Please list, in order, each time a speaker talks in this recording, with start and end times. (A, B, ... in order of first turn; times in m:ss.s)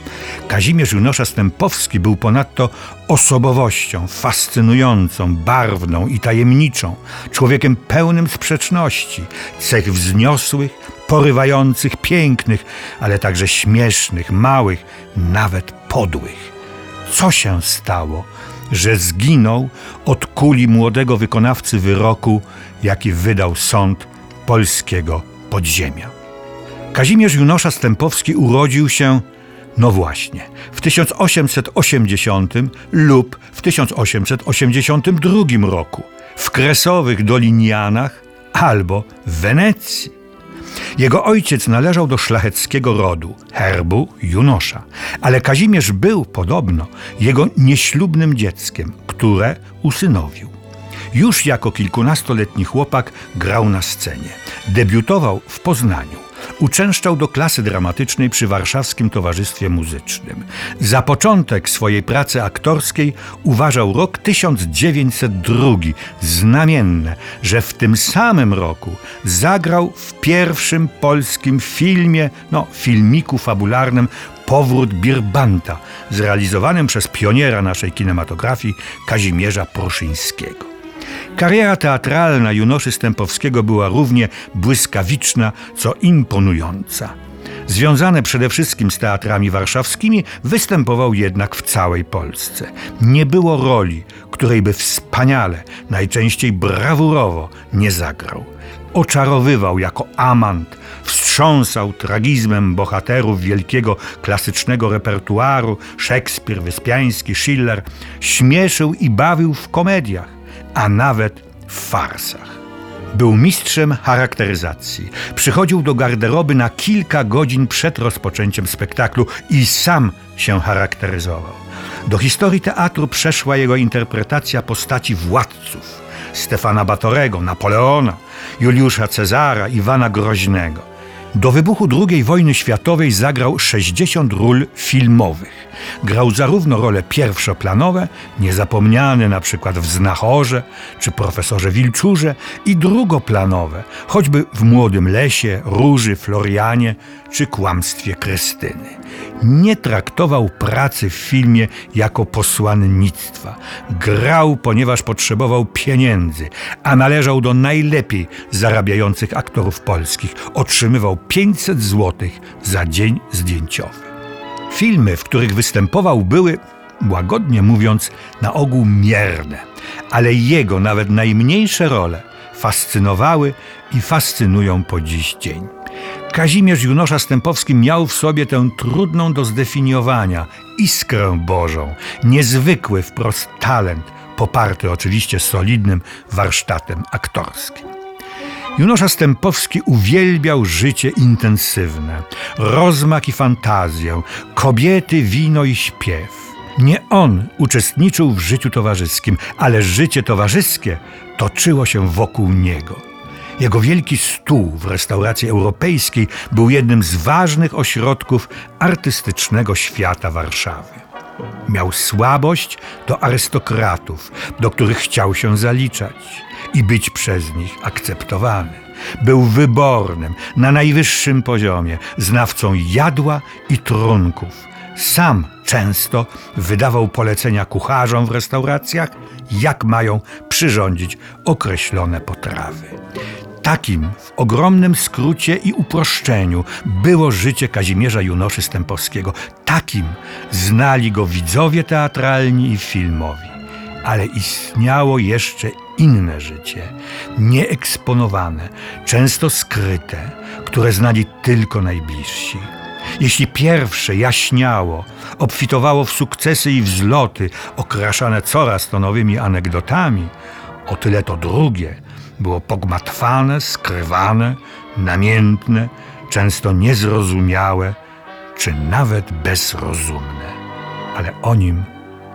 0:00.5-0:16.5 A
0:17.1-0:26.1 A
0:26.9-0:29.2 A
0:29.8-0:40.2 A
0:41.0-0:50.5 A
0:51.1-1:20.7 A
1:21.3-1:27.1 A
1:27.6-1:52.6 A
1:53.1-2:44.1 A
2:44.7-2:55.7 A
2:56.3-3:07.9 A
3:08.7-3:23.0 A
3:23.6-3:31.0 A
3:31.7-3:53.0 A
3:53.6-4:20.3 A
4:20.8-4:28.0 A
4:28.5-4:30.6 A
4:31.1-4:31.9 A